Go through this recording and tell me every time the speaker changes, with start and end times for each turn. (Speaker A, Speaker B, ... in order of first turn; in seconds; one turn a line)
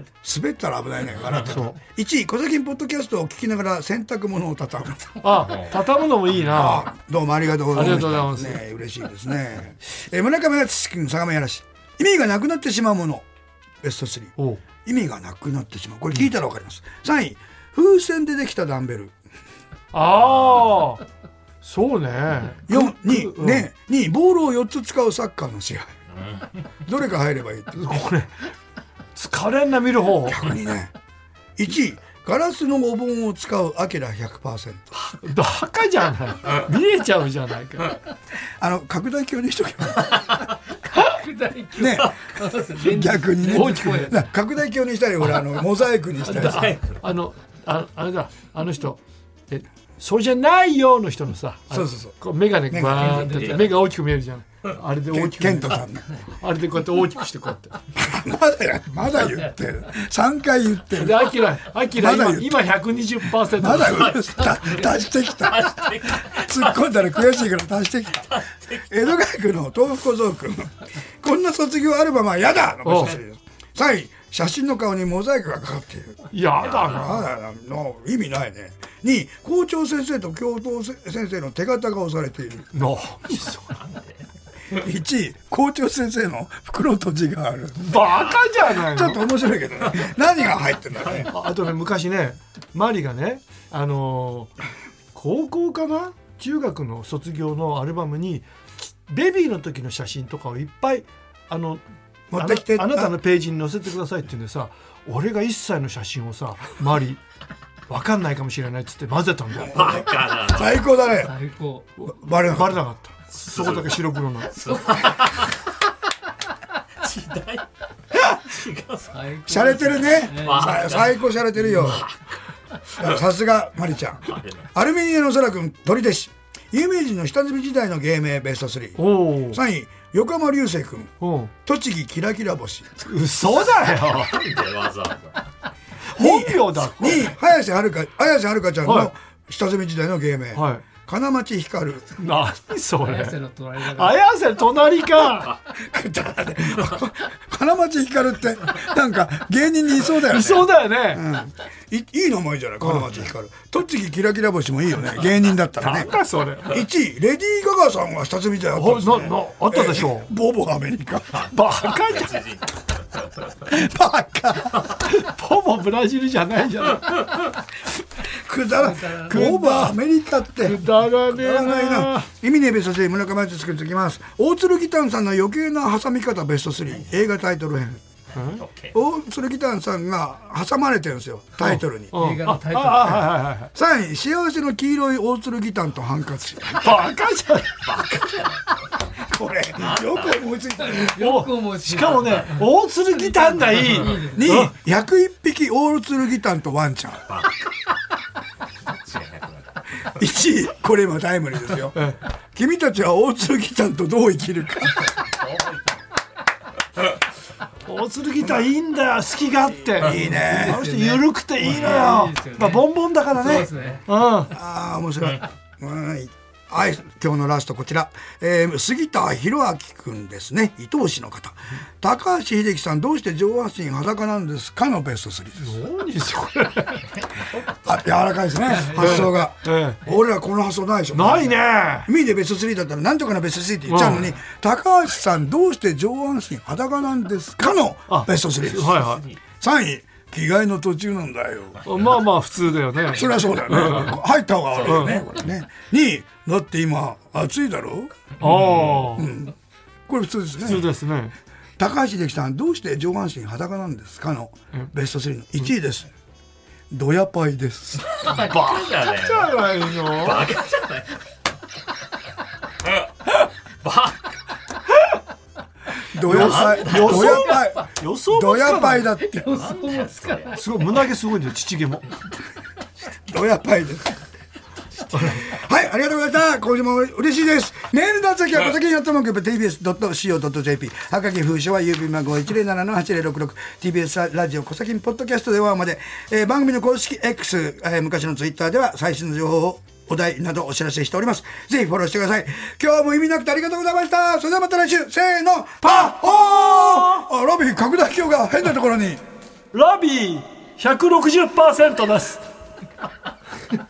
Speaker A: 0.2-5.2
Speaker B: 1.4-1.8
Speaker B: 5.2-6.9
Speaker C: 5.4-5.7
Speaker A: 6.5-13.2
Speaker B: 7.7-8.6
Speaker A: 13.8-19.1
Speaker B: 19.9-21.0
Speaker B: 21.6-23.7
Speaker A: 22.7-25.9
Speaker C: 26.1-26.5
Speaker A: 26.8-27.9
Speaker B: 27.7-28.3
Speaker B: 29.1-30.5
Speaker A: 30.2-30.9
Speaker A: 31.6-34.8
Speaker B: 34.9-38.0
Speaker A: 38.6-40.2
Speaker D: 41.0-44.2
Speaker A: 41.8-46.7
Speaker B: 43.4-44.2
Speaker C: 46.2-47.0
Speaker B: 46.2-57.8
Speaker A: 51.7-52.2
Speaker A: 52.7-53.2
Speaker D: 53.0-53.7
Speaker C: 53.1-53.8
Speaker A: 55.1-56.1
Speaker A: 58.0-62.7
Speaker B: 60.9-64.1
Speaker A: 63.4-82.7
Speaker C: 63.9-67.0
Speaker C: 68.2-69.0
Speaker B: 72.8-73.2
Speaker B: 76.3-77.3
Speaker C: 76.6-77.0
Speaker B: 82.7-83.8
Speaker C: 83.5-84.2
Speaker A: 84.7-88.1
Speaker B: 87.8-89.2
Speaker A: 88.7-91.3
Speaker B: 91.3-94.5
Speaker B: 95.1-101.8
Speaker A: 102.3-103.2
Speaker B: 102.3-107.2
Speaker B: 107.9-109.9
Speaker A: 109.6-111.3
Speaker C: 109.7-110.8
Speaker D: 111.1-111.9
Speaker B: 112.0-114.5
Speaker A: 112.0-112.8
Speaker C: 113.5-115.6
Speaker C: 117.0-117.7
Speaker C: 118.2-119.3
Speaker D: 119.1-121.1
Speaker A: 119.5-122.0
Speaker C: 120.2-122.2
Speaker A: 123.0-131.1
Speaker C: 124.3-124.7
Speaker B: 129.0-129.6
Speaker B: 131.2-131.5
Speaker A: 131.6-132.9
Speaker B: 133.0-134.4
Speaker C: 134.0-135.5
Speaker B: 136.0-137.3
Speaker A: 136.2-142.2
Speaker B: 138.8-139.1
Speaker B: 140.5-140.8
Speaker B: 142.2-145.6
Speaker D: 143.0-144.2
Speaker A: 145.7-156.1
Speaker B: 150.2-151.2
Speaker B: 152.8-153.1
Speaker B: 155.8-156.7
Speaker A: 156.6-161.4
Speaker B: 158.7-160.3
Speaker C: 161.3-163.7
Speaker B: 161.5-162.5
Speaker A: 163.7-164.9
Speaker B: 165.0-167.3
Speaker A: 168.3-178.0
Speaker D: 168.8-169.3
Speaker B: 169.3-170.0
Speaker B: 170.6-172.3
Speaker B: 178.3-178.6
Speaker C: 178.5-179.0
Speaker A: 178.9-182.1
Speaker B: 181.6-183.7
Speaker D: 182.1-183.4
Speaker A: 183.7-187.0
Speaker B: 186.8-187.9
Speaker C: 187.8-188.7
Speaker A: 189.1-191.1
Speaker C: 189.8-190.4
Speaker D: 190.9-194.4
Speaker B: 191.2-194.7
Speaker C: 192.2-192.5
Speaker C: 193.8-194.2
Speaker A: 194.3-197.3
Speaker C: 197.3-197.5
Speaker C: 198.8-200.1
Speaker A: 200.2-202.0
Speaker A: 202.5-205.1
Speaker C: 205.0-206.0
Speaker B: 207.8-214.6
Speaker A: 210.0-211.1
Speaker D: 210.6-214.0
Speaker A: 213.3-213.7
Speaker A: 214.5-225.8
Speaker B: 225.6-227.1
Speaker A: 227.6-241.8
Speaker B: 228.7-230.0
Speaker B: 231.1-232.1
Speaker B: 233.8-234.3
Speaker B: 238.1-239.2
Speaker C: 238.9-239.4
Speaker B: 241.8-244.1
Speaker A: 243.1-248.1
Speaker C: 244.7-245.4
Speaker B: 244.8-245.2
Speaker B: 248.4-249.3
Speaker C: 248.4-249.2
Speaker A: 249.1-249.6
Speaker A: 250.1-250.9
Speaker B: 250.6-251.3
Speaker A: 251.8-256.1
Speaker A: 256.9-258.3
Speaker C: 258.2-261.2
Speaker B: 258.2-260.5
Speaker C: 263.8-264.3
Speaker A: 266.1-269.7
Speaker B: 266.2-269.1
Speaker C: 266.2-267.4
Speaker D: 269.2-270.6
Speaker C: 269.6-270.6
Speaker B: 270.5-272.1
Speaker A: 273.3-274.2
Speaker B: 275.1-275.5
Speaker A: 275.2-299.2
Speaker B: 299.7-302.4